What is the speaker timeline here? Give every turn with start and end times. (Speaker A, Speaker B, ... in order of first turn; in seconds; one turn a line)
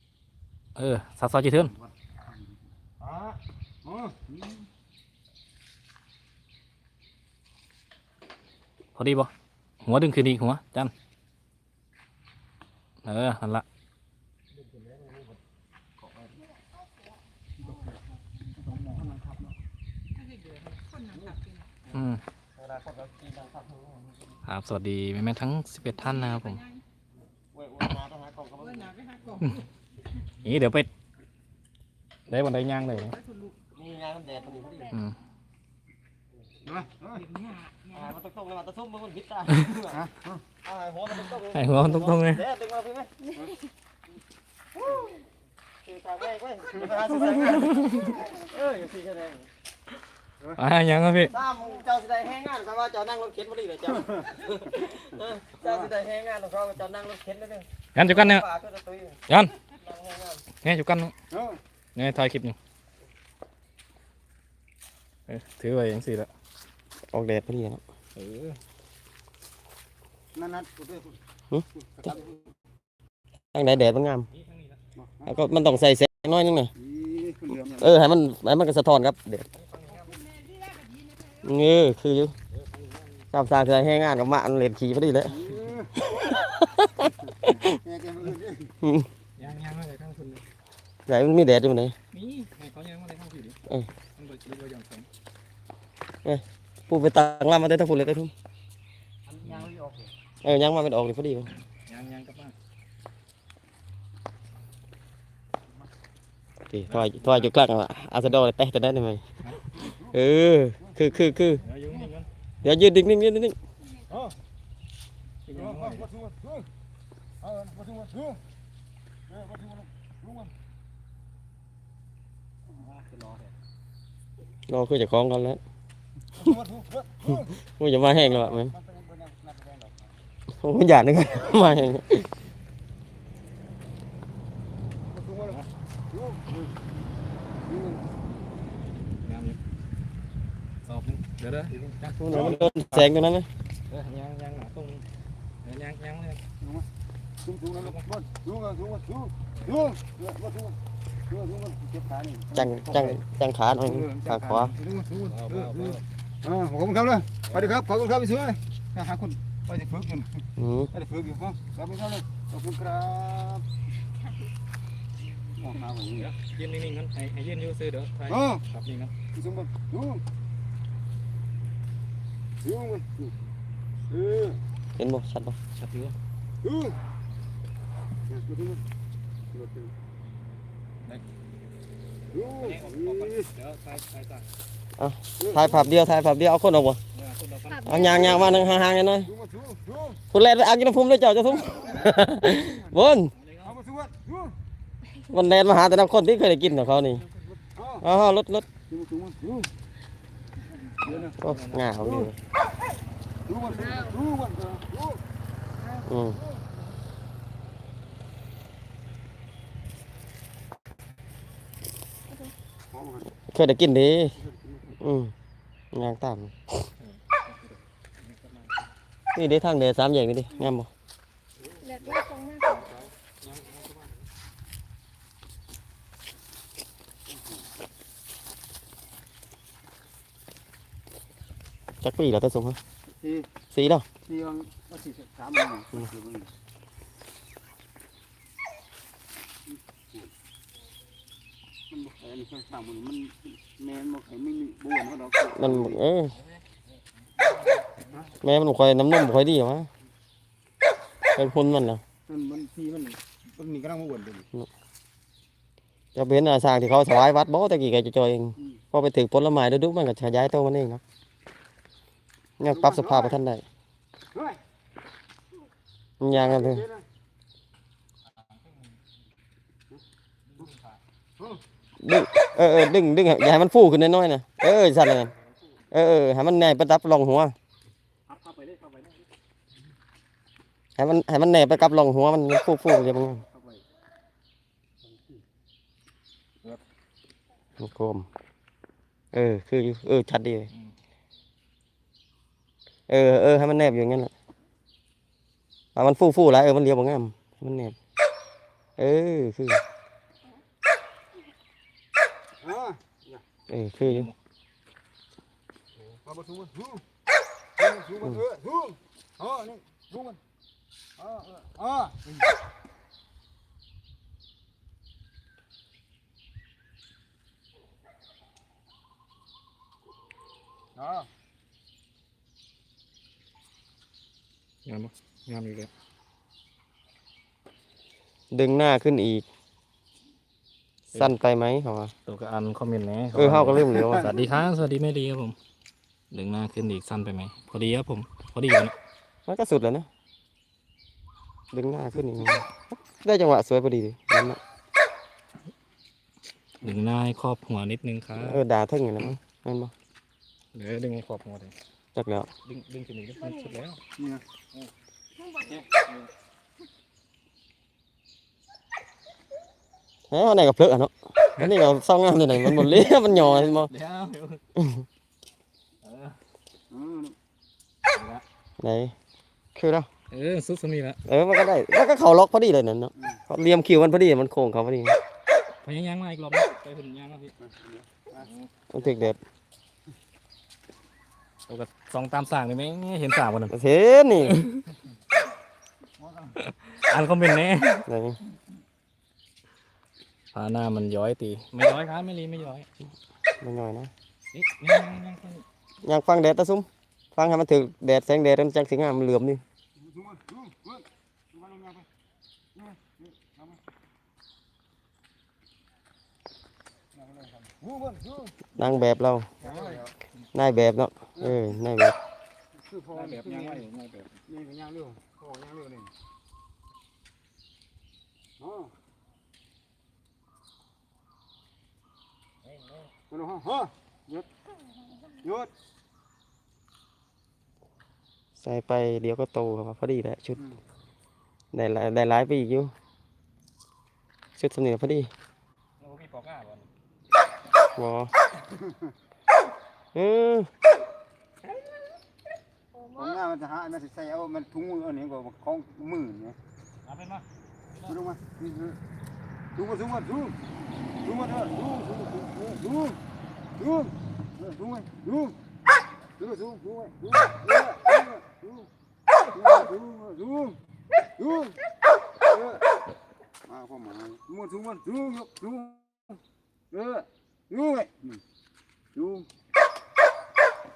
Speaker A: 0.8-1.7
Speaker B: 1.6-4.7
Speaker A: 9.0-9.3
Speaker A: 9.8-10.9
Speaker A: 13.0-13.7
Speaker C: 14.8-15.4
Speaker C: 16.0-16.4
Speaker B: 17.6-19.6
Speaker D: 20.1-21.7
Speaker A: 21.9-22.2
Speaker C: 22.6-24.4
Speaker A: 24.5-26.6
Speaker D: 25.9-26.8
Speaker C: 27.5-28.9
Speaker D: 28.6-29.6
Speaker A: 30.4-30.9
Speaker A: 32.3-33.1
Speaker D: 32.9-33.6
Speaker C: 33.7-35.0
Speaker B: 36.6-37.2
Speaker D: 37.1-38.1
Speaker C: 37.9-40.1
Speaker B: 39.9-40.4
Speaker C: 40.6-43.1
Speaker A: 41.5-42.4
Speaker C: 45.8-49.5
Speaker A: 47.5-48.1
Speaker A: 50.6-51.4
Speaker C: 51.2-60.4
Speaker B: 55.6-55.9
Speaker A: 58.0-58.5
Speaker A: 59.3-59.5
Speaker A: 60.6-61.1
Speaker B: 61.3-61.6
Speaker A: 62.0-62.6
Speaker A: 65.3-66.3
Speaker C: 67.1-67.8
Speaker A: 68.2-68.6
Speaker B: 70.3-71.2
Speaker C: 71.5-72.2
Speaker B: 71.8-72.4
Speaker C: 73.5-74.3
Speaker A: 74.3-74.8
Speaker B: 75.0-75.5
Speaker C: 75.3-76.7
Speaker B: 76.8-78.0
Speaker C: 77.8-79.5
Speaker A: 79.6-80.1
Speaker D: 79.9-81.5
Speaker C: 81.4-82.3
Speaker A: 82.5-83.2
Speaker C: 83.3-85.5
Speaker B: 85.3-86.0
Speaker C: 86.0-87.8
Speaker B: 87.3-88.8
Speaker C: 88.8-89.1
Speaker A: 89.4-90.4
Speaker C: 91.1-92.0
Speaker A: 92.1-93.6
Speaker A: 94.2-95.1
Speaker C: 96.2-98.3
Speaker B: 99.3-100.1
Speaker C: 100.4-101.5
Speaker A: 101.9-102.5
Speaker C: 106.7-109.2
Speaker A: 106.9-107.5
Speaker B: 109.8-110.2
Speaker C: 110.1-111.6
Speaker B: 110.8-111.3
Speaker A: 111.6-112.3
Speaker C: 112.6-113.6
Speaker B: 114.1-114.3
Speaker A: 115.5-116.1
Speaker B: 115.5-116.7
Speaker B: 117.4-118.4
Speaker B: 119.3-120.5
Speaker A: 122.8-123.5
Speaker C: 124.7-125.6
Speaker B: 126.3-127.6
Speaker C: 127.7-128.7
Speaker B: 128.1-130.2
Speaker C: 130.6-132.3
Speaker B: 135.1-135.6
Speaker A: 135.4-135.7
Speaker B: 136.1-136.7
Speaker B: 137.6-138.0
Speaker A: 139.2-139.6
Speaker A: 140.8-143.1
Speaker C: 142.2-143.5
Speaker A: 143.9-145.1
Speaker A: 145.6-146.4
Speaker B: 146.6-146.9
Speaker B: 147.4-150.8
Speaker A: 147.8-148.1
Speaker A: 149.6-149.8
Speaker B: 151.3-153.2
Speaker C: 152.5-154.7
Speaker B: 153.8-163.7
Speaker A: 155.2-156.0
Speaker A: 157.5-157.8
Speaker C: 160.6-160.9
Speaker B: 165.5-166.3
Speaker A: 166.2-169.1
Speaker B: 168.3-168.6
Speaker B: 169.3-170.2
Speaker B: 172.6-173.3
Speaker B: 174.1-174.6
Speaker C: 175.0-175.6
Speaker A: 175.8-176.2
Speaker B: 176.6-177.0
Speaker B: 178.3-178.8
Speaker B: 179.5-179.9
Speaker B: 182.3-183.5
Speaker A: 182.3-184.5
Speaker C: 185.0-187.0
Speaker B: 185.4-185.8
Speaker A: 187.1-188.8
Speaker E: 187.7-188.4
Speaker C: 187.9-189.3
Speaker B: 189.2-190.2
Speaker C: 190.3-193.3
Speaker B: 191.6-193.0
Speaker A: 193.3-193.8
Speaker B: 193.6-194.6
Speaker C: 195.3-197.3
Speaker B: 197.6-198.1
Speaker C: 198.0-198.7
Speaker B: 198.9-199.7
Speaker B: 201.0-201.3
Speaker A: 201.0-202.1
Speaker C: 201.4-202.3
Speaker B: 202.0-202.3
Speaker B: 203.5-205.2
Speaker C: 206.1-206.4
Speaker B: 212.9-213.3
Speaker C: 213.5-214.4
Speaker B: 214.4-215.0
Speaker C: 215.0-215.3
Speaker C: 215.9-216.6
Speaker A: 217.0-218.8
Speaker C: 219.3-220.9
Speaker E: 221.8-222.9
Speaker A: 222.7-224.0
Speaker B: 227.3-227.6
Speaker C: 232.0-232.8
Speaker B: 233.1-233.5
Speaker C: 233.7-234.1
Speaker B: 234.2-236.5
Speaker B: 239.7-240.3
Speaker B: 241.9-246.0
Speaker C: 245.5-246.4
Speaker C: 248.4-249.9
Speaker C: 251.3-252.0
Speaker B: 252.3-254.5
Speaker C: 256.1-261.0
Speaker C: 262.6-263.6
Speaker B: 262.7-263.4
Speaker B: 264.3-264.6
Speaker C: 266.2-266.9
Speaker B: 266.3-267.0
Speaker A: 268.3-269.0
Speaker A: 270.4-271.0
Speaker C: 272.0-275.3
Speaker C: 275.9-277.6
Speaker A: 278.3-279.2
Speaker C: 281.0-283.4
Speaker B: 283.5-283.8
Speaker B: 285.1-285.4
Speaker C: 287.8-288.3
Speaker C: 289.3-290.7
Speaker C: 293.1-294.3
Speaker C: 295.9-298.0
Speaker C: 299.0-299.8
Speaker B: 302.6-303.4
Speaker C: 303.7-304.3
Speaker A: 304.0-304.4
Speaker B: 306.2-307.0
Speaker B: 307.8-310.4
Speaker B: 311.2-312.5
Speaker B: 321.0-321.3
Speaker A: 324.9-325.9
Speaker C: 328.5-329.4
Speaker C: 331.1-332.1
Speaker A: 332.3-335.6
Speaker C: 333.4-334.4
Speaker B: 333.9-334.3
Speaker A: 336.3-338.9
Speaker C: 339.5-340.1
Speaker C: 341.7-344.6
Speaker A: 346.8-348.6
Speaker C: 348.4-349.9
Speaker A: 350.8-351.7
Speaker C: 352.1-352.5
Speaker A: 352.6-354.0
Speaker B: 354.2-354.4
Speaker E: 355.4-355.8
Speaker A: 355.6-356.3
Speaker C: 360.3-363.9
Speaker A: 362.6-364.6
Speaker C: 364.8-365.1
Speaker A: 366.0-366.4
Speaker B: 366.9-367.4
Speaker A: 368.1-368.4
Speaker C: 368.8-369.1
Speaker C: 369.8-370.1
Speaker A: 370.3-371.2
Speaker C: 371.3-375.2
Speaker A: 375.8-377.5
Speaker B: 377.6-378.5
Speaker A: 378.4-378.7
Speaker C: 378.9-379.4
Speaker A: 381.7-383.8
Speaker C: 383.7-384.6
Speaker A: 384.4-384.8
Speaker B: 386.2-386.6
Speaker A: 386.6-388.1
Speaker C: 388.1-388.4
Speaker A: 390.5-392.9
Speaker C: 393.6-394.1
Speaker A: 394.5-395.6
Speaker C: 396.0-399.6
Speaker B: 400.0-402.1
Speaker B: 402.7-403.8
Speaker B: 407.1-408.6
Speaker C: 408.8-409.5
Speaker B: 409.6-410.1
Speaker A: 409.6-410.5
Speaker C: 410.5-412.2
Speaker B: 412.8-413.9
Speaker A: 413.1-414.4
Speaker B: 414.5-416.1
Speaker B: 418.6-418.9
Speaker A: 422.6-423.1
Speaker B: 423.3-424.5
Speaker B: 425.4-425.7
Speaker C: 428.6-430.6
Speaker C: 431.7-432.9
Speaker C: 434.6-435.3
Speaker A: 436.0-436.9
Speaker C: 437.9-438.3
Speaker B: 438.7-439.1
Speaker C: 440.1-440.7
Speaker E: 442.9-443.4
Speaker B: 443.2-446.6
Speaker A: 447.1-448.1
Speaker B: 448.1-449.0
Speaker B: 449.7-450.6
Speaker B: 451.2-453.2
Speaker B: 453.8-455.6
Speaker B: 456.4-458.9
Speaker B: 459.5-460.8
Speaker B: 461.4-461.8
Speaker B: 462.5-462.8
Speaker B: 463.6-466.4
Speaker B: 466.9-468.4
Speaker B: 469.1-469.5